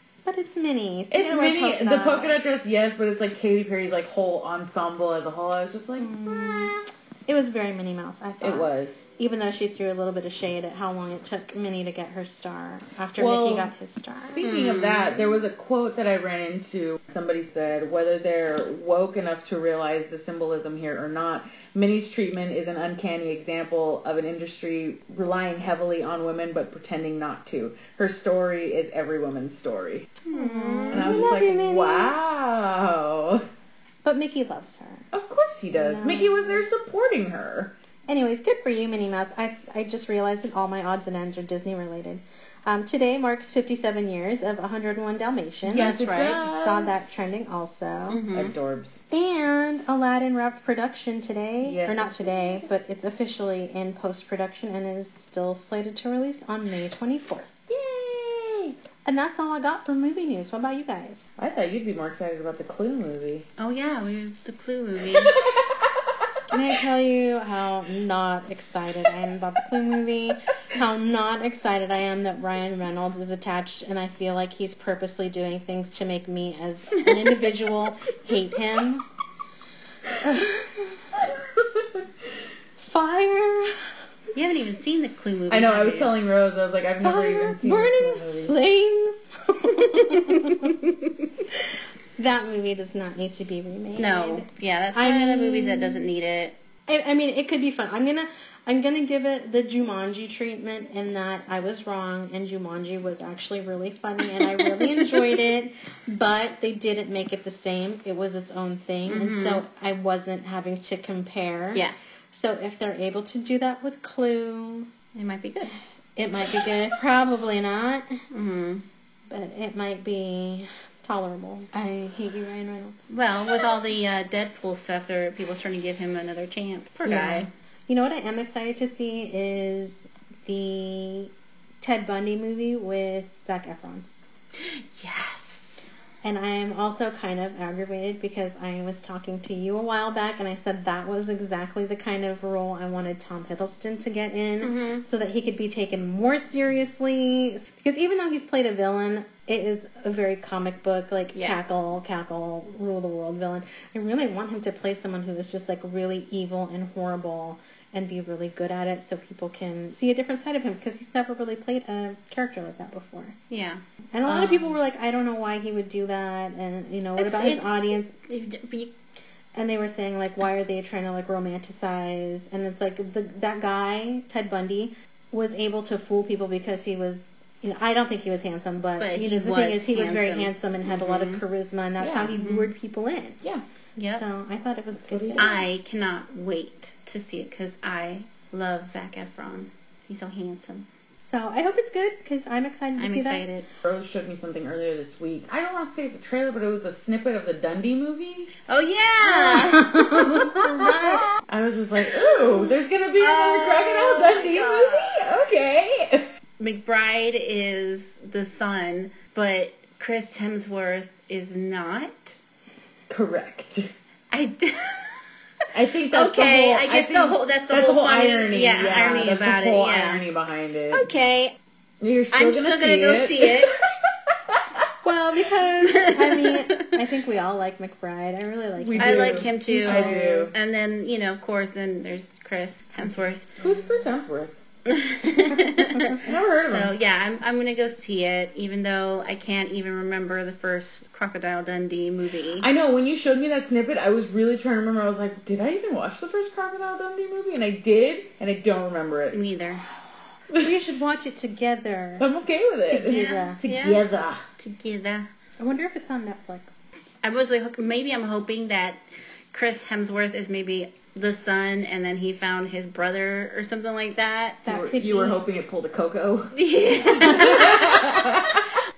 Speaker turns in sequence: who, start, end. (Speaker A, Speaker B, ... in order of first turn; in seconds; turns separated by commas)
Speaker A: 0.2-2.4, Speaker B: 1.1-6.8, Speaker A: 6.0-14.4, Speaker B: 8.4-9.0, Speaker B: 13.2-30.1, Speaker C: 14.4-15.2, Speaker C: 30.3-31.3, Speaker A: 30.3-32.1, Speaker B: 30.9-33.5, Speaker A: 34.0-35.0, Speaker B: 35.1-37.7, Speaker A: 35.7-36.6, Speaker A: 38.1-48.2, Speaker B: 45.6-47.2, Speaker C: 45.7-46.4, Speaker C: 48.1-48.5, Speaker B: 48.3-49.0, Speaker A: 49.1-57.5, Speaker B: 51.6-52.6, Speaker B: 57.7-58.7, Speaker A: 59.0-61.2, Speaker B: 61.4-63.5, Speaker C: 63.6-65.4, Speaker B: 65.1-66.4, Speaker A: 66.5-79.0, Speaker B: 80.1-80.4, Speaker A: 80.2-81.0, Speaker B: 81.1-82.4, Speaker A: 82.8-83.9, Speaker C: 84.3-86.1, Speaker B: 85.5-88.5, Speaker A: 87.0-90.8, Speaker C: 89.7-91.2, Speaker A: 92.2-96.0, Speaker C: 94.0-96.5, Speaker A: 96.9-114.9, Speaker C: 104.4-105.4, Speaker C: 109.1-109.6, Speaker C: 111.7-112.2, Speaker C: 115.1-115.8, Speaker A: 116.2-118.2, Speaker C: 118.3-118.8, Speaker A: 119.3-123.6, Speaker C: 123.1-127.5, Speaker B: 127.0-127.5, Speaker A: 127.9-134.0, Speaker C: 134.6-135.9, Speaker A: 136.2-163.4, Speaker C: 144.6-145.0, Speaker C: 151.3-151.8, Speaker C: 163.5-163.8, Speaker A: 164.1-168.2, Speaker B: 164.2-164.7, Speaker C: 167.2-168.9, Speaker A: 169.5-183.4, Speaker C: 179.0-181.4, Speaker B: 182.0-182.4, Speaker C: 182.4-182.7, Speaker C: 184.0-184.2, Speaker A: 184.1-185.6, Speaker B: 185.0-185.6, Speaker C: 185.4-190.9, Speaker A: 191.2-193.4, Speaker C: 193.0-193.6, Speaker B: 193.8-198.5, Speaker C: 198.7-201.2, Speaker A: 199.2-201.3, Speaker B: 201.4-206.3, Speaker C: 202.3-202.7, Speaker C: 203.2-205.2, Speaker C: 206.6-212.4, Speaker B: 213.1-213.9, Speaker C: 214.3-215.3, Speaker B: 215.7-221.1, Speaker C: 216.1-220.2, Speaker C: 220.9-221.6, Speaker B: 222.0-224.9, Speaker C: 222.3-223.7, Speaker A: 225.0-230.5, Speaker C: 225.8-227.0, Speaker B: 228.8-230.5, Speaker C: 229.0-233.5, Speaker B: 233.6-234.6, Speaker C: 234.9-242.7, Speaker A: 235.6-236.2, Speaker B: 236.2-236.9, Speaker B: 242.6-249.4, Speaker C: 249.3-249.8, Speaker A: 250.6-252.3, Speaker B: 252.2-254.4, Speaker A: 252.9-253.6, Speaker C: 253.1-254.0, Speaker C: 254.6-255.3, Speaker A: 255.6-256.8, Speaker C: 257.2-259.0, Speaker C: 259.5-264.6, Speaker A: 264.6-265.4, Speaker B: 264.7-268.8, Speaker C: 266.5-268.2